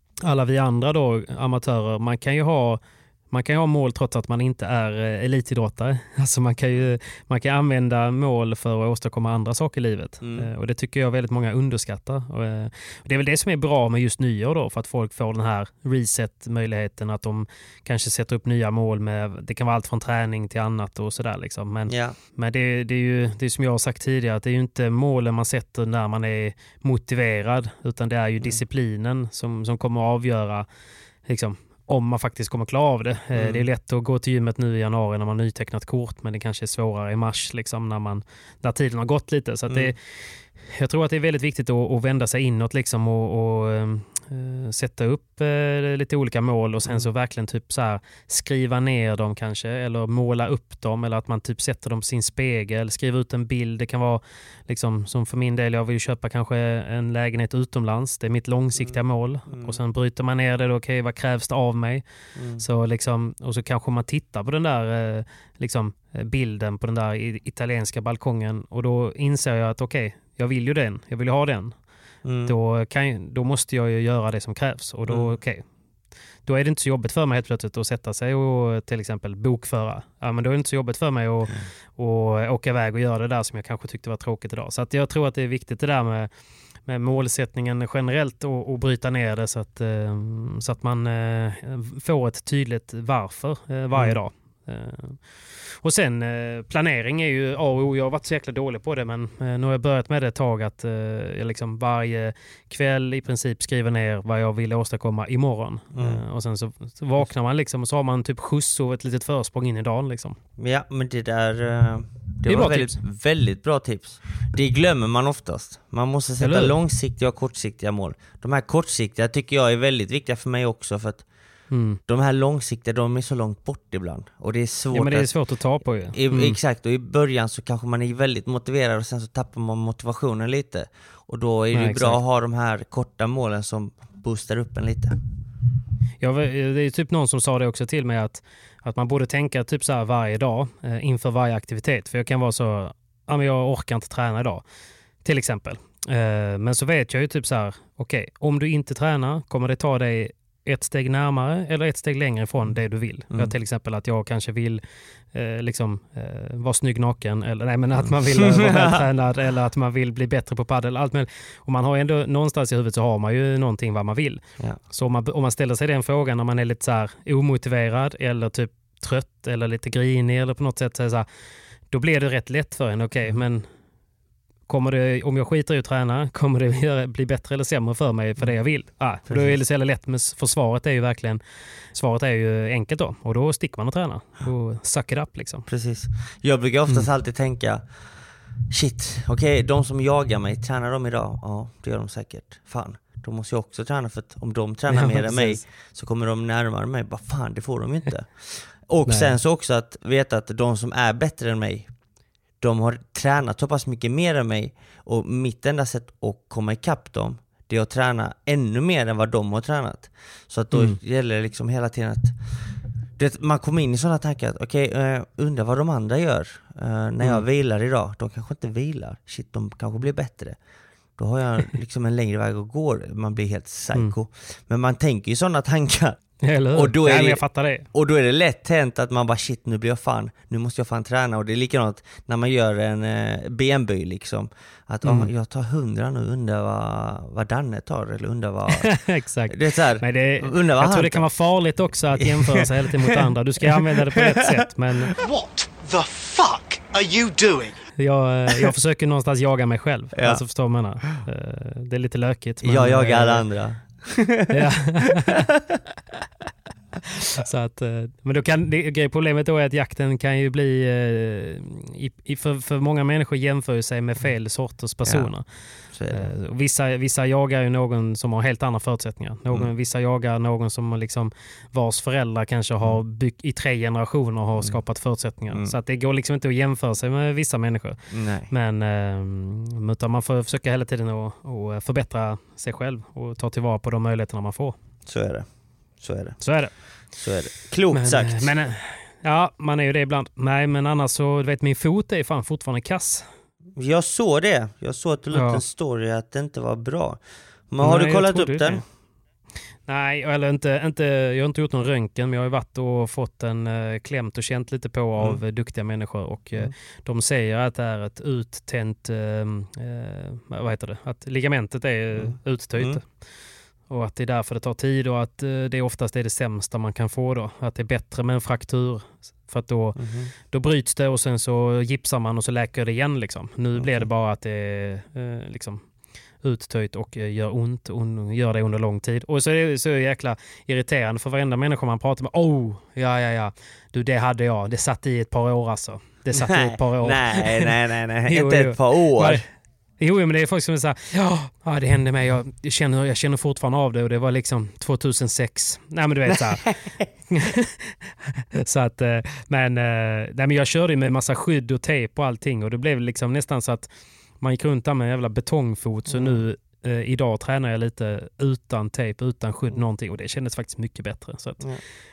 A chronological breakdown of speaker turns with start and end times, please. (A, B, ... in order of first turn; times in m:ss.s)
0:00.2-0:30.7 A
0:10.2-0:10.5 B
0:21.9-0:22.2 B
0:31.3-0:40.0 A
0:33.4-0:33.6 B
0:40.6-1:02.0 A
0:59.5-0:59.8 B
1:02.4-1:02.6 B
1:02.6-1:11.8 A
1:12.2-1:12.6 B
1:12.4-1:15.6 A
1:16.5-1:26.3 A
1:26.9-1:35.2 A
1:33.9-1:34.2 B
1:35.8-1:50.4 A
1:45.9-1:46.2 B
1:50.6-2:01.3 B
1:52.5-1:53.0 A
1:56.4-1:56.8 A
2:01.7-2:02.0 A
2:02.0-2:05.3 B
2:04.9-2:06.6 A
2:06.1-2:15.2 B
2:11.7-2:12.2 A
2:16.2-2:24.6 A
2:25.2-2:34.8 A
2:35.3-2:51.3 A
2:38.0-2:39.0 B
2:51.9-2:53.7 A
2:54.7-3:01.4 A
2:59.3-2:59.6 B
3:01.9-3:05.7 A
3:05.7-3:07.8 B
3:08.7-3:21.9 B
3:14.9-3:15.6 A
3:19.1-3:19.4 A
3:22.6-3:32.4 B
3:30.7-3:31.0 A
3:33.2-3:40.6 B
3:41.2-3:46.2 B
3:46.4-3:47.9 A
3:46.7-4:01.2 B
3:55.0-3:55.3 A
3:58.7-4:05.1 A
4:02.1-4:04.7 B
4:05.2-4:07.8 C
4:08.0-4:13.4 A
4:10.2-4:10.4 B
4:12.6-4:15.2 B
4:14.5-4:15.5 A
4:17.4-4:25.5 A
4:25.0-4:25.3 B
4:25.9-4:26.3 B
4:26.1-4:38.0 A
4:38.1-4:38.5 B
4:38.5-4:44.8 A
4:45.1-4:45.5 B
4:46.0-4:46.4 B
4:46.4-4:46.8 A
4:47.1-4:48.6 B
4:47.9-4:53.3 A
4:53.8-4:58.8 B
4:55.3-4:55.6 A
4:57.8-4:58.8 A
4:59.9-5:13.1 A
5:12.2-5:13.0 B
5:13.9-5:25.9 A
5:20.0-5:20.3 B
5:23.8-5:24.1 B
5:26.4-5:37.7 A
5:36.3-5:39.4 B
5:38.3-5:39.4 A
5:40.0-5:46.7 A
5:46.3-5:47.1 B
5:47.3-5:48.0 A
5:48.6-5:53.9 A
5:54.4-6:01.6 A
5:56.1-5:56.4 B